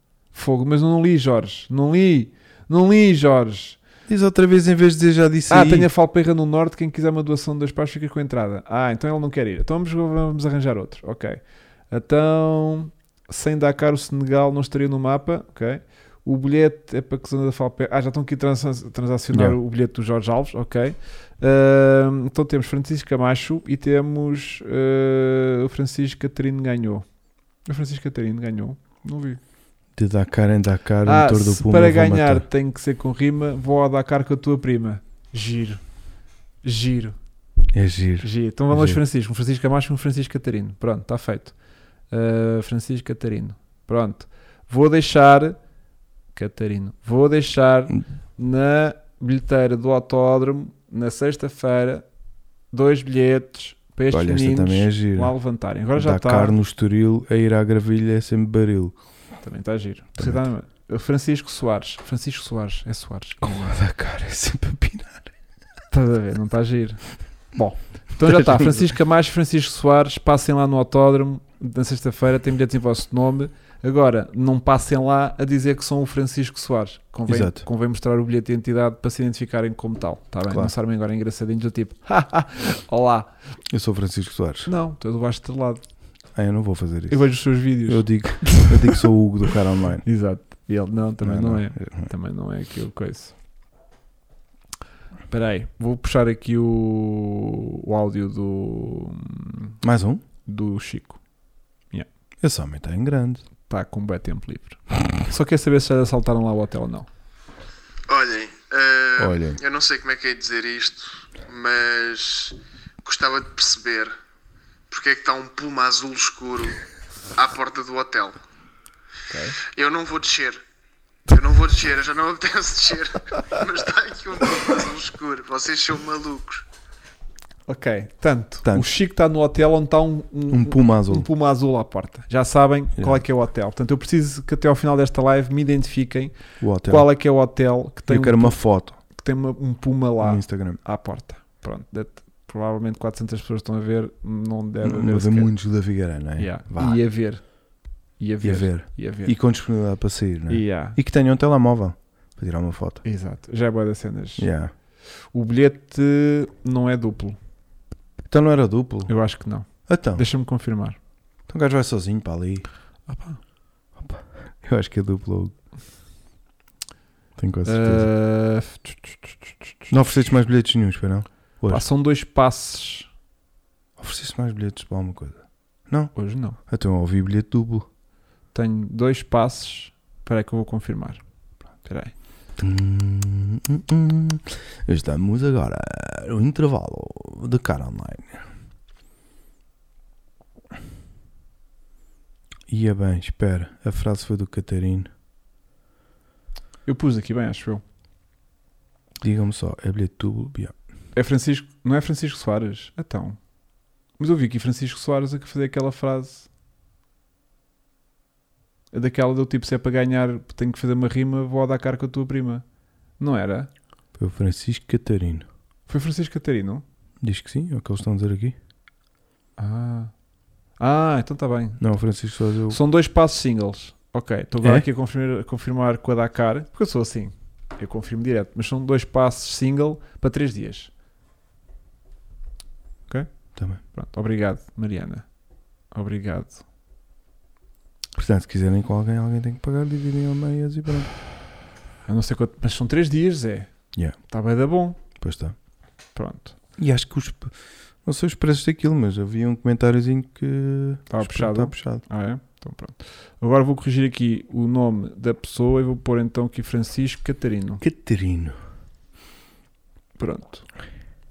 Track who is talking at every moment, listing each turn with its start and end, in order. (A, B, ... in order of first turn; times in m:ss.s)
0:00.3-0:03.8 A
0:04.1-0:05.9 B
0:05.5-0:27.0 A
0:27.7-0:29.4 A
0:30.0-0:32.4 B
0:31.0-0:35.8 A
0:36.6-0:37.2 A
0:37.7-0:39.0 B
0:38.2-0:41.6 A
0:42.1-0:45.6 A
0:46.4-0:52.0 A
0:52.7-0:56.6 A
0:54.1-0:55.3 B
0:56.0-0:59.0 B
0:59.4-1:03.8 A
1:00.2-1:00.4 B
1:03.4-1:05.3 B
1:05.9-1:23.3 A
1:08.3-1:08.8 B
1:17.3-1:17.6 B
1:20.5-1:20.7 B
1:23.7-1:24.7 B
1:24.7-1:25.8 A
1:26.3-1:30.0 B
1:27.1-1:29.0 A
1:30.0-1:33.3 A
1:31.2-1:32.1 B
1:35.3-1:39.8 A
1:39.8-1:40.2 B
1:40.4-1:41.2 A
1:42.4-1:43.4 B
1:43.7-1:47.1 A
1:48.1-1:54.2 C
1:49.2-1:49.6 B
1:54.9-1:56.8 C
1:57.4-1:58.4 C
1:59.3-1:59.6 A
1:59.6-2:00.6 C
2:01.3-2:06.6 C
2:07.7-2:25.5 A
2:10.5-2:11.3 B
2:16.6-2:17.1 B
2:18.1-2:19.0 B
2:20.2-2:20.8 B
2:24.8-2:27.0 B
2:26.4-2:27.4 A
2:28.2-2:29.3 A
2:28.4-2:33.0 B
2:30.5-2:31.0 A
2:33.0-2:34.5 A
2:34.4-2:34.7 B
2:35.3-2:37.4 A
2:38.3-2:39.1 B
2:39.1-2:41.0 A
2:39.9-2:40.2 B
2:41.5-2:42.7 B
2:43.1-2:43.4 A
2:44.0-2:45.5 B
2:47.4-2:48.1 B
2:47.6-2:49.9 A
2:49.9-2:51.8 B
2:51.7-2:53.1 A
2:54.0-2:56.1 B
2:56.2-2:56.6 A
2:56.7-2:57.9 B
2:58.5-3:01.2 A
3:01.8-3:02.1 A
3:02.6-3:08.4 B
3:12.7-3:15.1 B
3:16.9-3:17.8 A
3:19.2-3:20.7 B
3:21.1-3:23.4 A
3:24.2-3:26.5 A
3:28.9-3:32.6 A
3:33.2-3:33.7 A
3:34.2-3:35.5 B
3:35.9-3:36.8 A
3:37.2-3:38.6 B
3:39.6-3:40.1 A
3:40.8-3:41.8 A
3:41.8-3:42.8 B
3:42.7-3:50.9 A
3:53.6-3:53.8 B
3:53.8-3:55.2 A
3:55.9-3:56.6 A
3:58.2-4:01.1 B
4:02.1-4:03.7 A
4:04.2-4:05.0 A
4:05.2-4:05.6 B
4:06.2-4:06.6 A
4:06.8-4:07.5 B
4:08.0-4:12.0 B
4:11.1-4:17.8 A
4:17.8-4:18.6 B
4:20.2-4:20.6 A